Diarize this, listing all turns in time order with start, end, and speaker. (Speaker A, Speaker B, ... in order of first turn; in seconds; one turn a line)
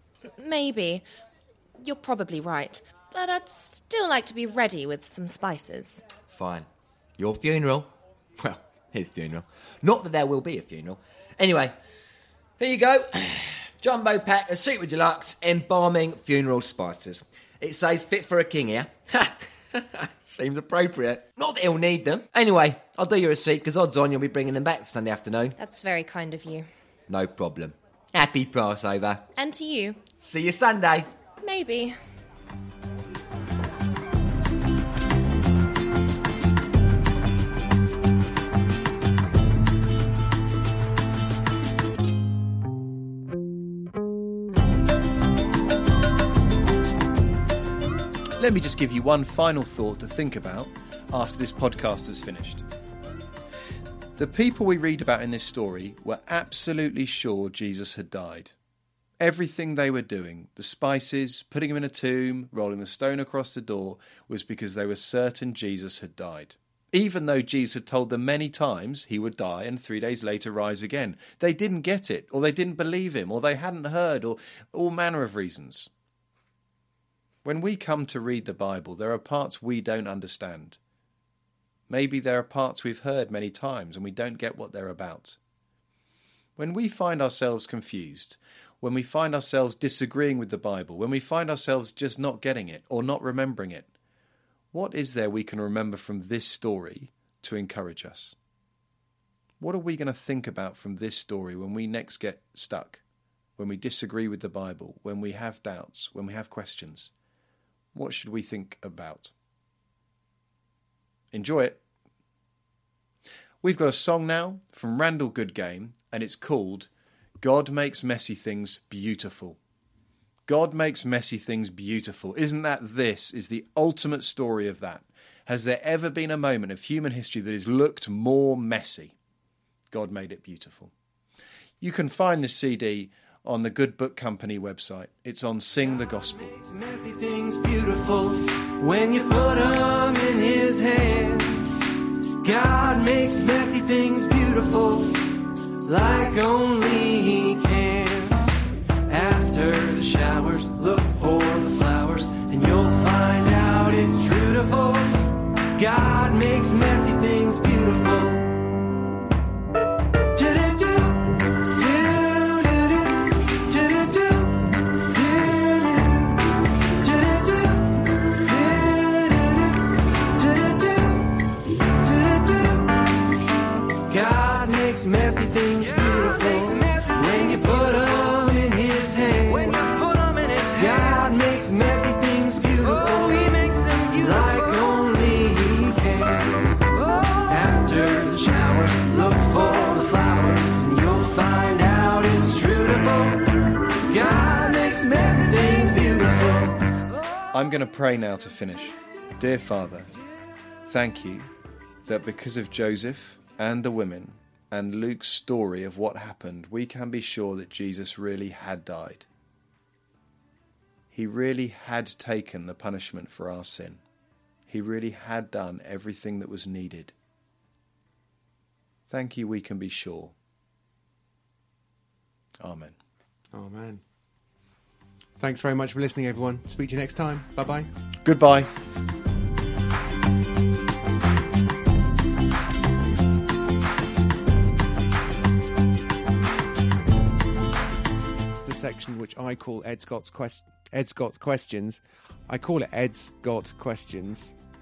Speaker A: 0.4-1.1
Speaker A: 1.8-6.0
Speaker B: 6.3-6.7
Speaker B: 7.2-11.8
Speaker B: 12.6-25.6
Speaker A: 25.6-26.7
Speaker B: 27.1-29.3
Speaker A: 29.4-30.1
Speaker B: 30.2-31.1
Speaker A: 31.4-32.0
Speaker C: 48.4-52.7
Speaker C: 54.2-58.5
Speaker C: 59.2-75.9
Speaker C: 77.4-80.8
Speaker C: 81.9-85.4
Speaker C: 86.6-93.9
Speaker C: 94.7-98.3
Speaker C: 99.6-103.0
Speaker C: 103.6-107.1
Speaker C: 107.9-109.3
Speaker C: 111.3-111.8
Speaker C: 113.6-116.9
Speaker C: 117.4-119.6
Speaker C: 120.5-129.2
Speaker C: 129.9-130.9
Speaker C: 131.8-136.6
Speaker D: 136.9-141.7
Speaker D: 142.4-145.3
Speaker D: 145.8-148.4
Speaker D: 149.1-155.2
Speaker D: 155.8-158.5
Speaker D: 160.4-164.7
Speaker D: 165.4-166.3
Speaker D: 167.0-169.7
Speaker D: 170.4-171.2
Speaker D: 172.1-172.8
Speaker D: 174.2-186.5
Speaker D: 187.7-193.4
Speaker D: 194.2-196.8
Speaker C: 197.5-200.1
Speaker C: 200.9-201.5
Speaker C: 202.1-209.3
Speaker C: 211.1-214.0
Speaker C: 214.7-217.1
Speaker C: 219.1-220.3
Speaker C: 222.6-222.9
Speaker E: 223.5-224.0
Speaker E: 225.4-227.9
Speaker C: 228.2-228.7
Speaker E: 238.6-244.6